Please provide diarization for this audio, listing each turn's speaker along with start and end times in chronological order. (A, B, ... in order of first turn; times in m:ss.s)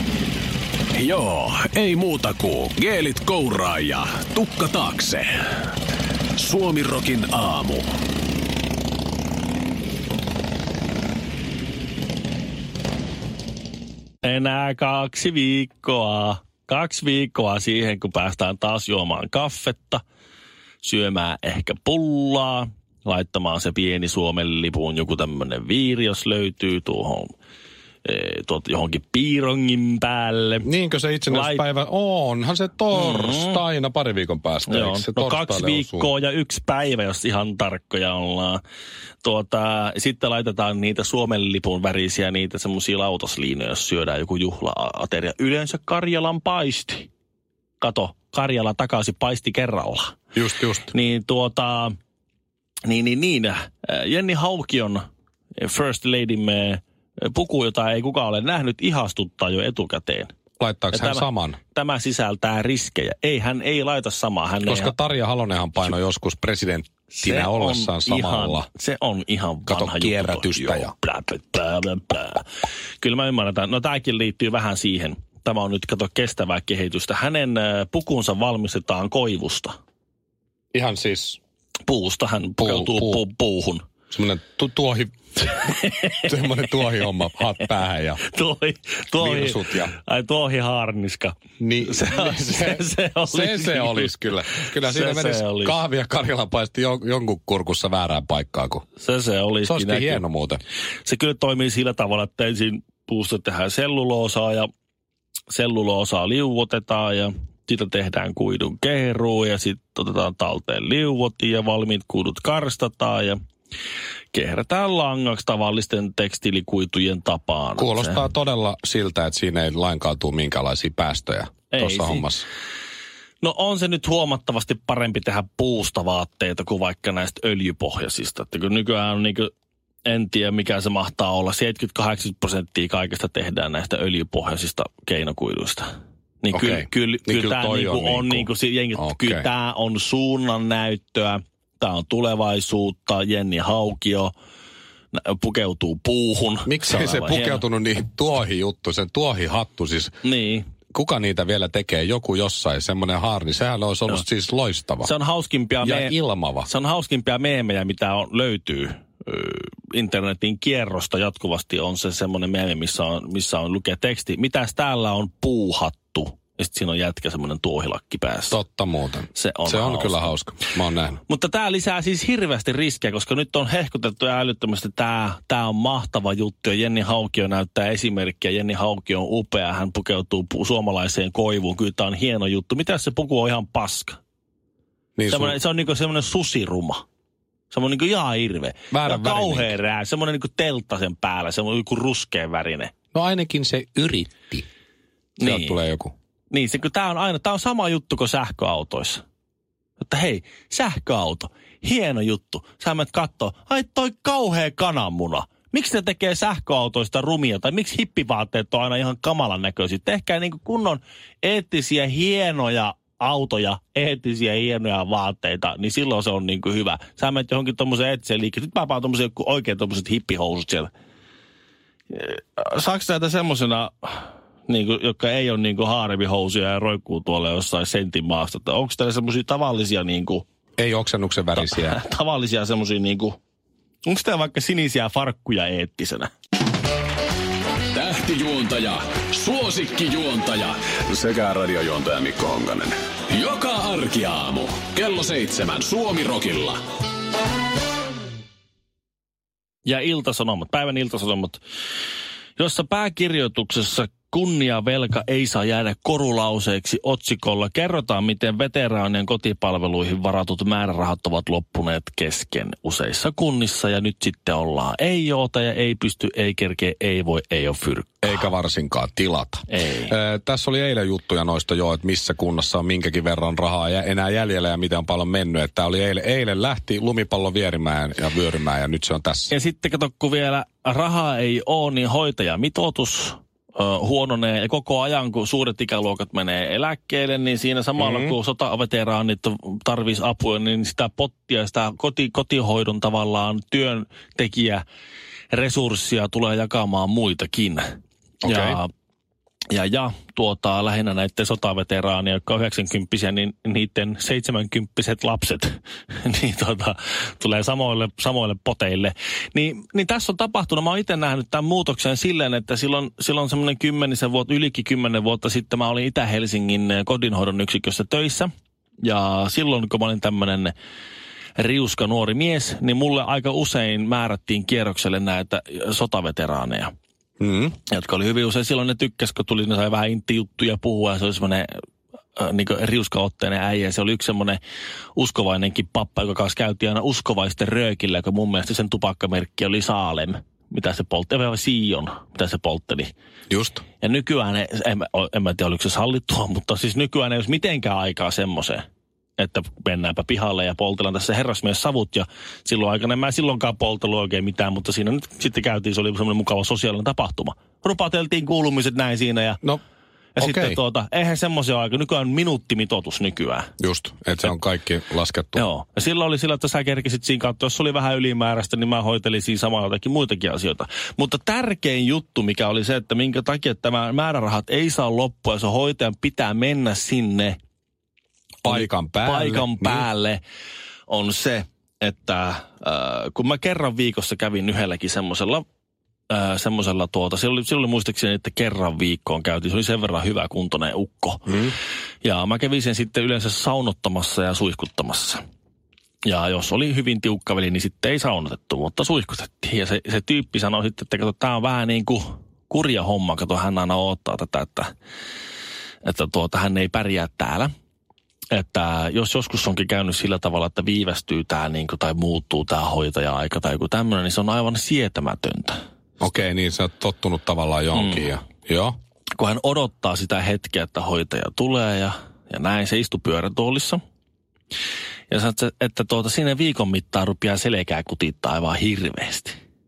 0:01.0-0:05.3 A
0:06.4-0:07.8 A
0:14.2-0:20.0 B
0:20.8-0:27.3 B
0:28.0-0:30.7 B
0:30.6-0:36.1 C
0:31.3-0:31.6 B
0:32.9-0:33.6 B
0:34.7-0:38.6 B
0:39.2-0:47.1 B
0:47.8-0:50.2 B
0:50.3-0:50.9 C
0:50.9-0:52.0 B
0:52.8-0:55.0 B
0:55.6-1:00.3 B
1:00.6-1:01.6 C
1:00.9-1:04.9 B
1:04.6-1:08.7 C
1:07.1-1:12.5 B
1:09.7-1:10.9 C
1:13.0-1:19.8 B
1:20.7-1:21.4 C
1:21.8-1:23.8 B
1:22.6-1:23.2 C
1:24.1-1:25.5 C
1:25.5-1:27.1 B
1:26.2-1:28.2 C
1:28.2-1:35.8 B
1:29.2-1:29.9 C
1:31.6-1:38.8 C
1:39.0-1:40.2 B
1:39.6-1:40.6 C
1:41.0-1:44.7 B
1:45.5-1:53.4 B
1:54.3-1:58.2 B
1:57.8-2:02.4 C
2:01.7-2:02.3 B
2:03.4-2:09.5 B
2:10.0-2:15.9 B
2:16.4-2:24.3 B
2:16.5-2:19.4 C
2:25.1-2:27.6 B
2:26.6-2:30.1 C
2:30.2-2:30.7 B
2:30.9-2:35.1 C
2:35.0-2:48.6 B
2:35.8-2:36.7 C
2:48.5-2:51.2 C
2:49.3-2:50.3 B
2:51.3-3:04.2 B
3:05.2-3:05.6 C
3:05.3-3:07.0 B
3:07.7-3:12.9 B
3:08.9-3:09.7 C
3:13.1-3:14.6 C
3:15.4-3:15.8 B
3:15.4-3:16.1 C
3:16.5-3:19.2 B
3:20.0-3:40.9 B
3:42.1-3:50.4 B
3:50.8-3:52.0 C
3:51.6-3:53.4 B
3:54.0-3:56.3 B
3:57.9-4:06.8 A
4:09.8-4:11.6 B
4:12.6-4:28.5 B
4:28.2-4:39.5 C
4:29.7-4:30.1 B
4:39.5-4:54.8 B
4:48.0-4:48.3 C
4:55.5-4:58.9 B
4:58.4-4:58.8 C
4:59.7-5:18.5 B
5:19.0-5:20.7 B
5:21.6-5:26.9 B
5:27.4-5:27.8 C
5:27.9-5:31.8 B
5:32.4-5:34.6 B
5:35.2-5:43.1 B
5:43.5-5:43.8 C
5:44.0-5:48.8 B
5:49.4-5:59.6 B
6:00.4-6:03.7 B
6:00.4-6:00.8 C
6:03.8-6:05.6 C
6:05.6-6:17.6 B
6:18.6-6:20.1 C
6:18.6-6:20.4 B
6:21.1-6:25.6 B
6:26.3-6:31.5 B
6:31.4-6:31.7 C
6:32.2-6:35.4 B
6:36.2-6:44.9 B
6:46.0-6:47.7 B
6:48.5-6:55.8 B
6:56.2-6:59.0 C
6:57.9-6:58.3 B
6:59.4-7:04.0 B
7:05.3-7:09.6 B